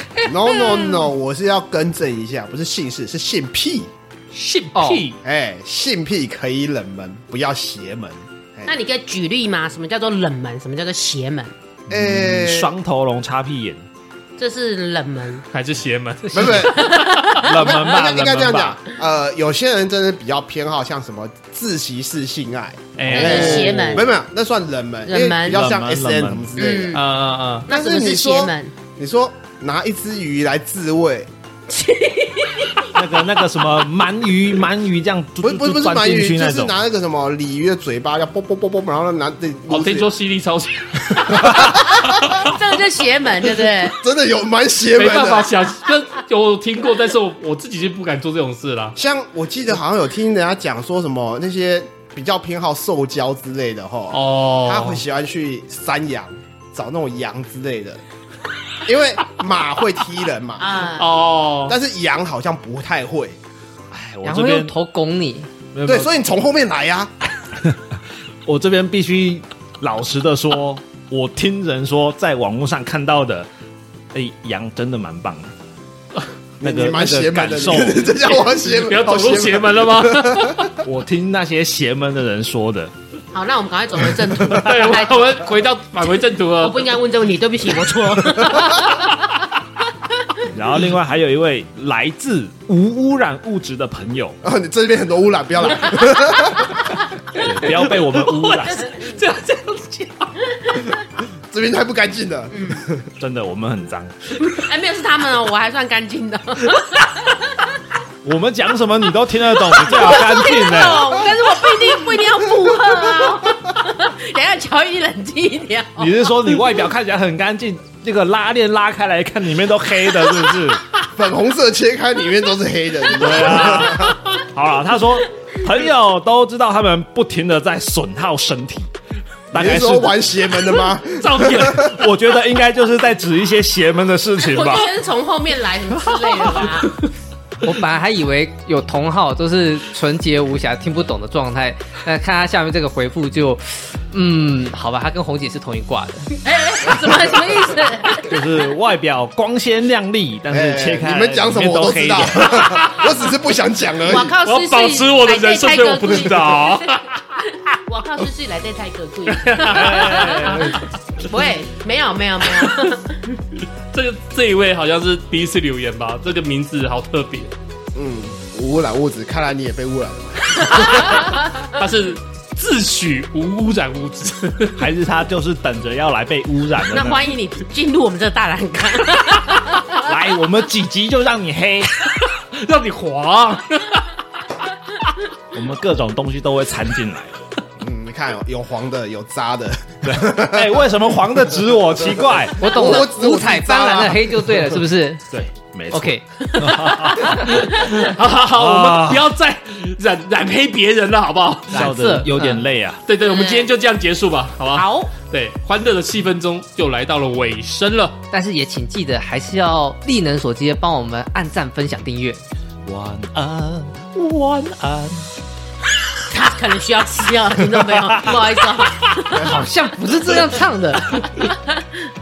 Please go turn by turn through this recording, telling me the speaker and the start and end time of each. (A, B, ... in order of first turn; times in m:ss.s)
0:00.2-0:03.9 A
0:04.3-0:05.2 B
0:04.7-0:05.0 C
0:05.2-0:08.7 A
0:08.6-0:11.5 D
0:11.9-0:13.8 E
0:11.9-0:12.7 A
0:14.4-0:15.4 D
0:15.5-0:17.4 B
0:16.3-0:16.9 A
0:16.6-0:17.5 D
0:17.4-0:18.8 E
0:17.5-0:27.0 A
0:23.0-0:23.7 B
0:23.1-0:24.0 E
0:23.1-0:24.1 D
0:25.0-0:25.6 D
0:25.5-0:26.5 E
0:26.6-0:27.0 D
0:26.9-0:27.7 B
0:27.7-0:28.7 D
0:27.7-0:31.3 A
0:31.7-0:33.0 D
0:32.9-0:36.7 E
0:35.4-0:40.1 A
0:39.7-0:42.5 B
0:41.4-0:42.1 A
0:41.7-0:44.0 D
0:43.8-0:45.5 A
0:44.9-0:49.0 B
0:49.0-0:58.0 A
0:54.1-0:55.0 B
0:58.8-1:00.8 A
1:00.6-1:01.1 D
1:01.0-1:01.8 B
1:01.7-1:03.4 A
1:03.9-1:04.7 E
1:04.2-1:05.5 C
1:05.7-1:06.1 E
1:05.8-1:07.1 A
1:07.6-1:13.5 E
1:14.1-1:15.5 E
1:16.6-1:18.1 E
1:16.6-1:20.7 A
1:18.3-1:20.7 B
1:20.8-1:22.9 E
1:23.3-1:25.4 D
1:24.5-1:26.9 B
1:26.6-1:29.1 D
1:30.5-1:34.4 E
1:34.4-1:36.8 A
1:37.3-1:38.9 E
1:37.4-1:40.3 B
1:38.9-1:39.2 D
1:41.5-1:43.0 A
1:42.5-1:42.8 D
1:43.2-1:44.1 E
1:44.4-1:47.5 D
1:48.2-1:51.2 E
1:49.8-1:56.3 D
1:56.0-2:00.8 E
2:01.1-2:04.2 A
2:03.1-2:08.9 E
2:09.5-2:10.2 E
2:09.5-2:12.0 A
2:11.2-2:14.9 E
2:14.4-2:17.0 D
2:17.6-2:26.3 C
2:26.4-2:28.3 D
2:28.2-2:32.7 E
2:30.5-2:34.3 A
2:34.1-2:37.0 D
2:34.4-2:37.2 B
2:37.7-2:43.3 D
2:39.3-2:40.8 B
2:39.7-2:40.8 E
2:42.5-2:42.9 B
2:43.9-2:47.5 B
2:47.9-2:51.2 A
2:51.0-2:54.8 B
2:54.8-2:57.3 E
2:56.9-3:00.0 D
2:59.9-3:02.1 E
3:02.4-3:04.1 B
3:05.5-3:07.4 E
3:07.8-3:10.7 A
3:10.0-3:13.0 E
3:12.0-3:14.3 A
3:12.6-3:15.2 C
3:15.3-3:17.8 E
3:15.9-3:17.4 C
3:17.4-3:21.8 B
3:18.6-3:19.3 E
3:21.7-3:23.0 E
3:21.7-3:22.6 C
3:23.1-3:28.2 B
3:23.2-3:23.7 D
3:24.7-3:25.1 D
3:28.3-3:32.4 C
3:32.8-3:35.3 E
3:36.3-3:39.5 D
3:37.7-3:38.4 E
3:39.3-3:41.3 C
3:41.4-3:41.8 D